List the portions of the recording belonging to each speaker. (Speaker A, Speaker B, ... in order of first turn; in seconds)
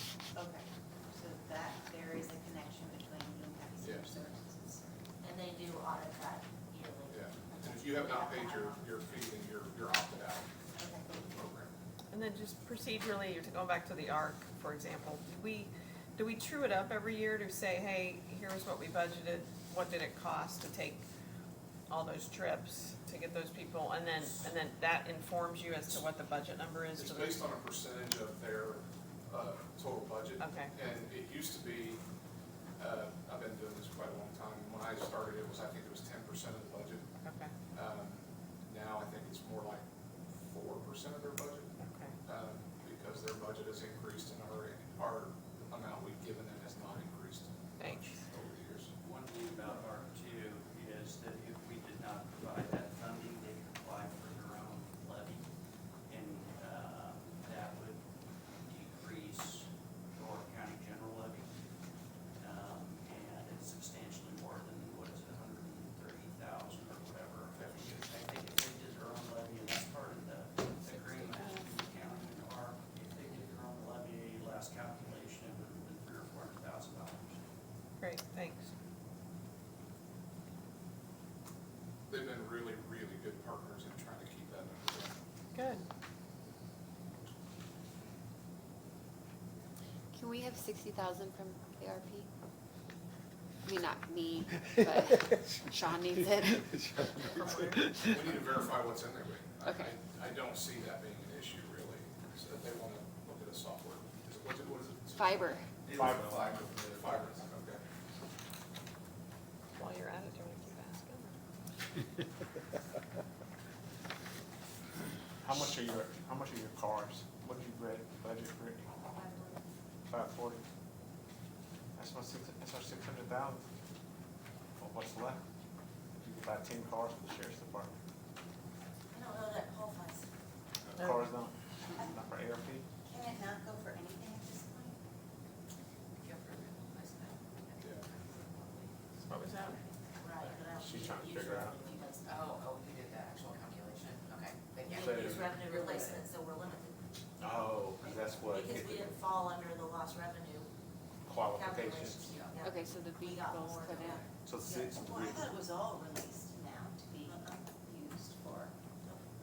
Speaker A: 0.3-5.1, 7.5-8.6, 10.8-11.5, 133.0-135.0, 155.0-158.7
Speaker B: 3.8-4.1, 7.1-10.5, 11.1-11.7, 27.0-32.0, 32.8-37.1, 37.7-41.7, 42.2-48.9, 82.1-85.1, 98.0-107.8, 137.8-138.1
Speaker C: 5.2-7.3, 7.9-8.8, 97.4-97.7, 119.2-119.6, 129.1-130.3, 140.2-142.6, 144.9-150.7, 151.5-155.0, 157.2-157.6
Speaker D: 12.1-21.0, 21.9-27.4, 30.4-30.7, 37.2-37.5, 41.9-42.1, 47.8-48.1, 78.0-78.7, 85.5-85.8, 109.8-111.4, 139.3-139.8
Speaker E: 49.0-55.5, 56.1-58.0, 58.6-61.5, 62.4-77.4
Speaker F: 71.4-71.7, 90.1-92.3, 93.7-97.6, 99.6-99.9, 105.1-105.7, 152.6-154.2
Speaker G: 105.9-106.7, 115.4-118.9, 120.1-120.6, 122.0-123.6, 124.8-125.4, 126.1-127.9, 130.9-132.8, 140.4-141.8, 144.9-145.5, 147.4-149.2, 151.3-152.4, 154.4-155.5
Speaker H: 136.2-139.0, 142.3-146.2